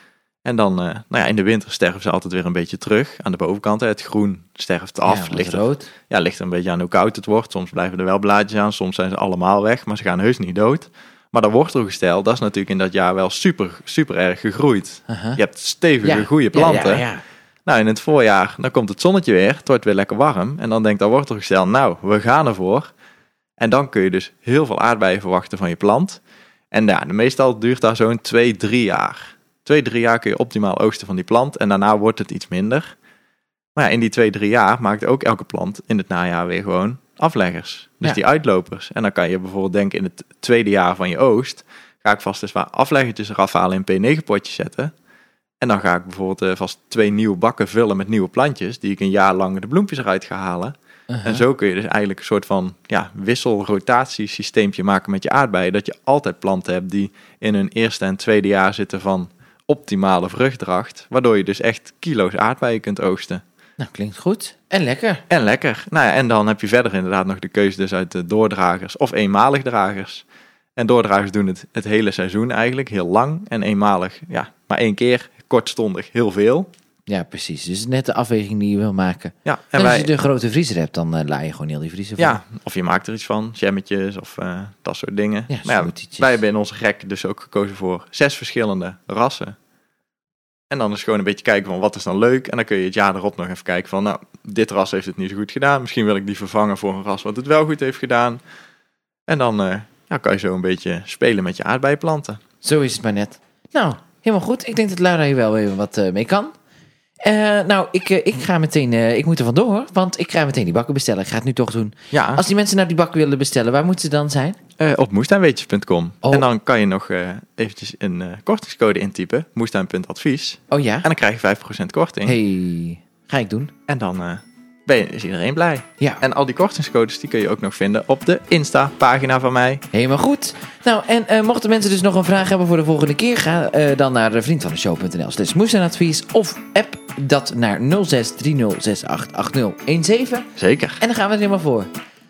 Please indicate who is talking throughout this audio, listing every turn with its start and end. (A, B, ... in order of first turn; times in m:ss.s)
0:00.4-0:17.0 A
0:05.0-0:05.9 B
0:15.1-0:15.4 B
0:16.0-0:17.2 B
0:17.6-0:22.9 A
0:23.6-0:26.2 A
0:26.7-0:32.9 A
0:33.8-0:44.9 A
0:45.6-1:03.4 A
0:51.1-0:51.4 B
1:03.8-1:05.2 B
1:05.3-1:10.2 A
1:10.8-1:16.7 A
1:17.1-1:22.4 B
1:19.4-1:20.1 A
1:22.2-1:29.6 A
1:25.5-1:26.3 B
1:30.7-1:38.4 A
1:39.3-1:42.4 A
1:42.6-1:46.5 B
1:47.2-1:54.6 B
1:52.1-1:52.4 A
1:54.8-2:02.4 A
2:00.7-2:01.1 B
2:02.2-2:03.7 B
2:03.9-2:09.8 A
2:09.9-2:20.5 B
2:20.6-2:21.0 A
2:21.0-2:21.9 B